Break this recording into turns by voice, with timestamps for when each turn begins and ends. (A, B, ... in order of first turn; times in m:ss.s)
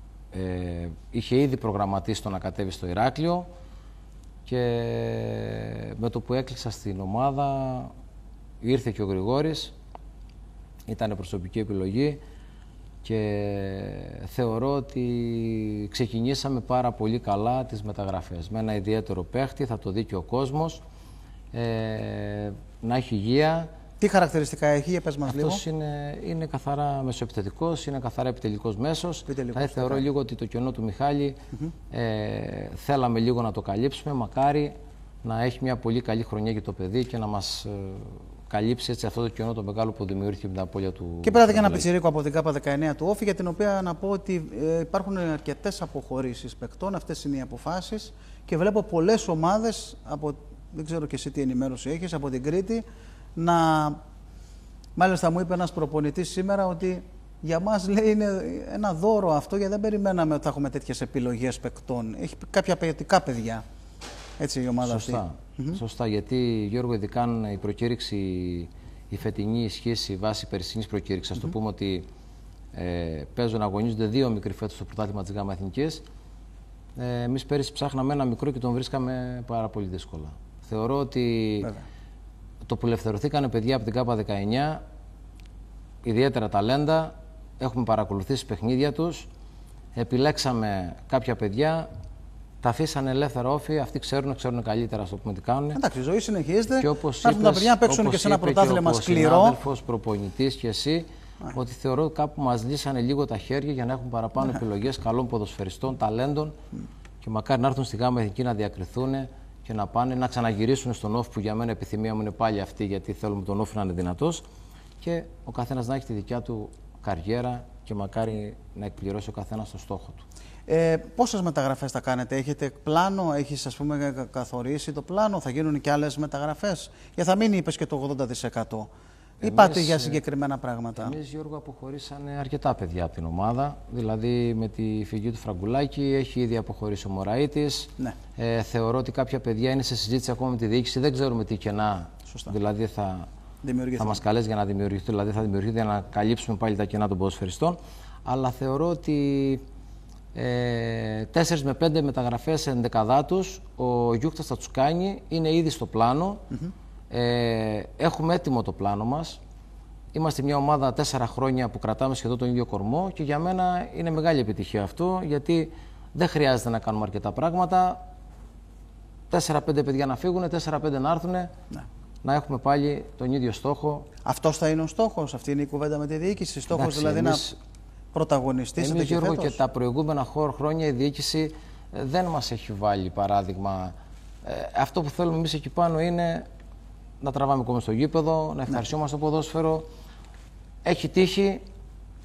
0:00.3-0:03.5 A
0:04.4-0:07.9 A
0:08.6-0:09.7 A
0:10.9-0:12.2 A
0:13.0-0:20.8 A
0:21.5-0:23.7 A
0:24.0-0:25.6 B
0:25.2-0:31.4 A
0:29.3-0:30.0 B
0:31.9-0:41.9 A
0:41.2-0:52.8 B
0:53.4-0:54.0 B
0:55.0-1:03.6 B
1:04.4-1:05.8 B
1:04.8-1:12.1 A
1:12.7-1:16.0 A
1:17.0-1:21.7 A
1:22.6-1:24.8 A
1:26.0-1:29.3 A
1:29.9-1:31.9 A
1:32.6-1:35.8 A
1:35.7-1:39.6 B
1:36.8-1:46.5 A
1:47.2-1:54.4 A
1:55.0-2:00.2 A
2:00.7-2:08.9 B
2:09.4-2:11.2 B
2:09.4-2:10.2 A
2:11.0-2:23.3 A
2:23.6-2:24.2 B
2:24.0-2:29.6 A
2:30.3-2:36.4 A
2:37.1-2:39.4 A
2:40.1-2:48.0 A
2:49.3-2:51.5 A
2:52.2-2:54.1 A
2:54.2-2:57.4 B
2:56.7-2:57.6 A
2:58.1-2:59.6 B
2:58.8-3:06.5 A
3:07.2-3:09.8 A
3:10.8-3:11.6 A